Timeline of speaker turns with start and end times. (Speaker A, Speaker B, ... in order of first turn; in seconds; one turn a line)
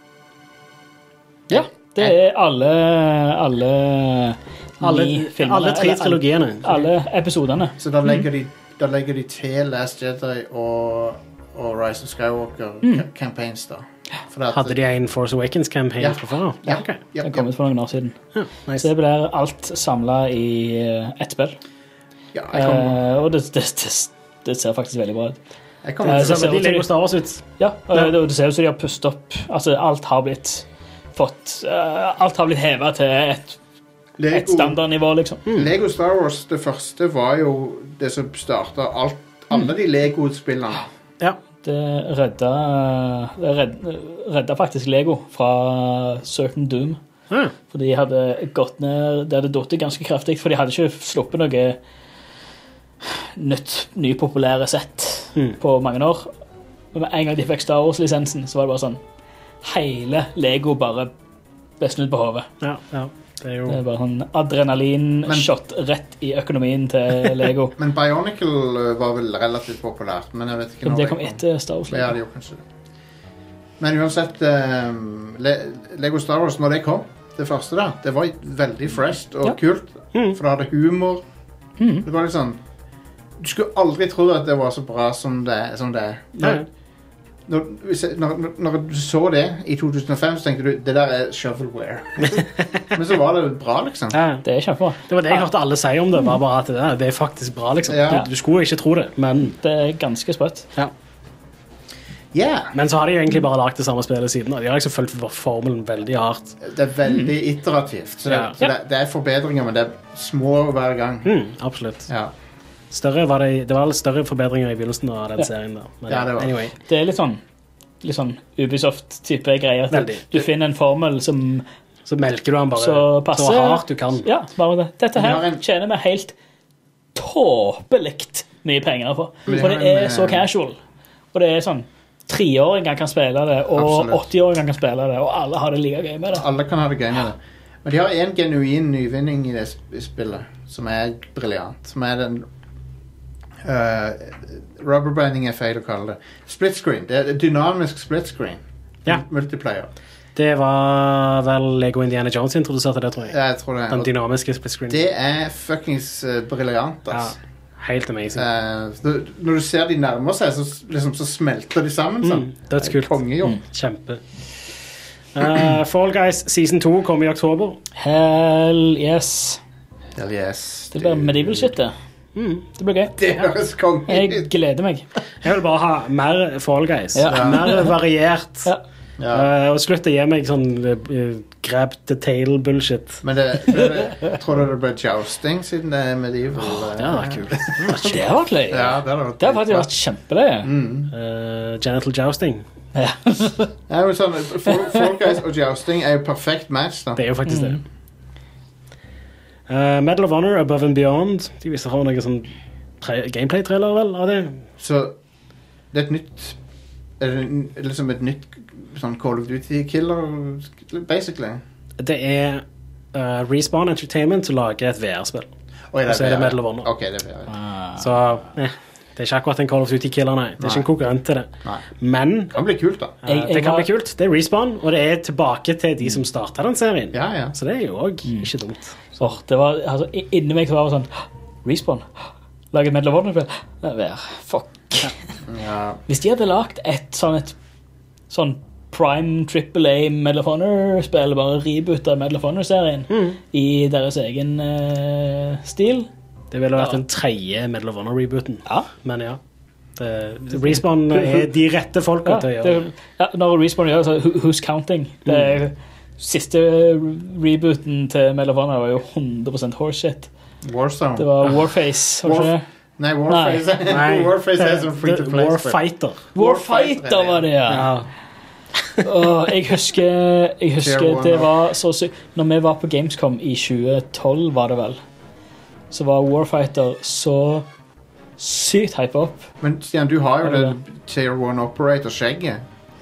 Speaker A: 1.5-2.2
Speaker B: 1.5-8.2
Speaker C: 4.8-6.9
Speaker A: 7.8-14.8
Speaker C: 14.5-17.0
Speaker A: 16.0-17.5
Speaker B: 17.2-18.2
Speaker C: 18.3-18.9
Speaker B: 18.8-21.6
Speaker A: 22.3-23.0
Speaker B: 22.5-25.4
Speaker A: 25.8-26.6
Speaker B: 26.0-26.9
Speaker C: 26.0-28.1
Speaker B: 27.6-33.6
Speaker A: 34.2-34.8
Speaker B: 34.3-35.4
Speaker A: 35.5-40.9
Speaker B: 41.6-47.0
Speaker B: 47.7-51.8
Speaker B: 53.1-56.3
Speaker B: 56.9-59.0
Speaker B: 59.6-61.1
Speaker B: 61.8-62.5
Speaker C: 62.6-63.8
Speaker B: 63.7-67.8
Speaker A: 67.8-72.6
Speaker B: 70.8-72.1
Speaker A: 73.8-81.2
Speaker C: 80.1-80.4
Speaker B: 81.8-82.1
Speaker A: 82.0-82.6
Speaker A: 83.4-86.6
Speaker C: 86.4-86.7
Speaker A: 87.5-94.2
Speaker C: 94.1-94.4
Speaker B: 94.4-95.1
Speaker C: 95.1-99.5
Speaker A: 97.9-98.3
Speaker B: 99.5-100.7
Speaker A: 102.3-102.7
Speaker C: 102.7-106.6
Speaker A: 106.6-111.3
Speaker C: 108.3-108.6
Speaker C: 111.2-112.1
Speaker A: 112.1-112.3
Speaker C: 112.9-116.8
Speaker A: 116.1-116.6
Speaker B: 116.9-117.4
Speaker B: 118.0-121.6
Speaker C: 119.9-120.4
Speaker C: 122.1-124.3
Speaker B: 122.8-126.3
Speaker A: 125.2-125.6
Speaker B: 127.2-130.8
Speaker A: 129.5-130.5
Speaker B: 131.3-136.5
Speaker A: 133.7-134.3
Speaker A: 136.3-142.5
Speaker A: 143.6-149.9
Speaker C: 150.4-153.4
Speaker A: 153.3-154.1
Speaker C: 153.9-155.1
Speaker A: 154.9-157.4
Speaker C: 157.1-158.5
Speaker A: 158.3-163.6
Speaker C: 162.2-164.2
Speaker C: 165.3-167.8
Speaker B: 168.0-169.6
Speaker A: 170.2-171.7
Speaker B: 170.9-171.9
Speaker C: 172.3-172.7
Speaker B: 172.8-173.2
Speaker A: 173.1-174.5
Speaker B: 174.1-175.1
Speaker C: 175.4-178.7
Speaker B: 177.2-177.9
Speaker A: 177.3-177.7
Speaker A: 179.2-179.5
Speaker C: 179.3-183.2
Speaker A: 183.2-188.2
Speaker C: 187.0-188.3
Speaker B: 188.0-190.7
Speaker A: 188.7-189.9
Speaker A: 190.6-191.1
Speaker C: 191.1-192.6
Speaker B: 192.9-193.7
Speaker A: 193.9-197.2
Speaker C: 197.2-197.8
Speaker B: 197.5-197.8
Speaker C: 199.7-204.6
Speaker A: 204.8-205.2
Speaker A: 205.9-206.6
Speaker A: 207.2-211.6
Speaker C: 212.0-215.5
Speaker A: 215.9-217.6
Speaker C: 216.1-216.9
Speaker B: 217.5-218.1
Speaker C: 218.0-221.5
Speaker A: 220.6-220.9
Speaker C: 222.0-222.6
Speaker A: 222.5-223.1
Speaker C: 223.2-229.2
Speaker B: 223.3-223.9
Speaker A: 227.1-227.6
Speaker B: 229.2-232.1
Speaker B: 232.7-235.1
Speaker A: 235.5-236.0
Speaker B: 236.1-237.6
Speaker B: 238.3-246.1
Speaker C: 243.1-243.4
Speaker C: 246.5-249.4
Speaker C: 250.0-252.8
Speaker B: 252.2-260.3
Speaker A: 260.6-261.5
Speaker B: 261.2-262.6
Speaker A: 262.2-265.8
Speaker B: 263.3-263.7
Speaker C: 263.9-266.2
Speaker A: 266.4-267.5
Speaker B: 266.4-267.9
Speaker C: 267.7-268.1
Speaker B: 269.0-275.0
Speaker A: 270.8-271.5
Speaker B: 275.9-277.7
Speaker B: 278.4-279.5
Speaker A: 279.6-282.6
Speaker B: 280.4-280.8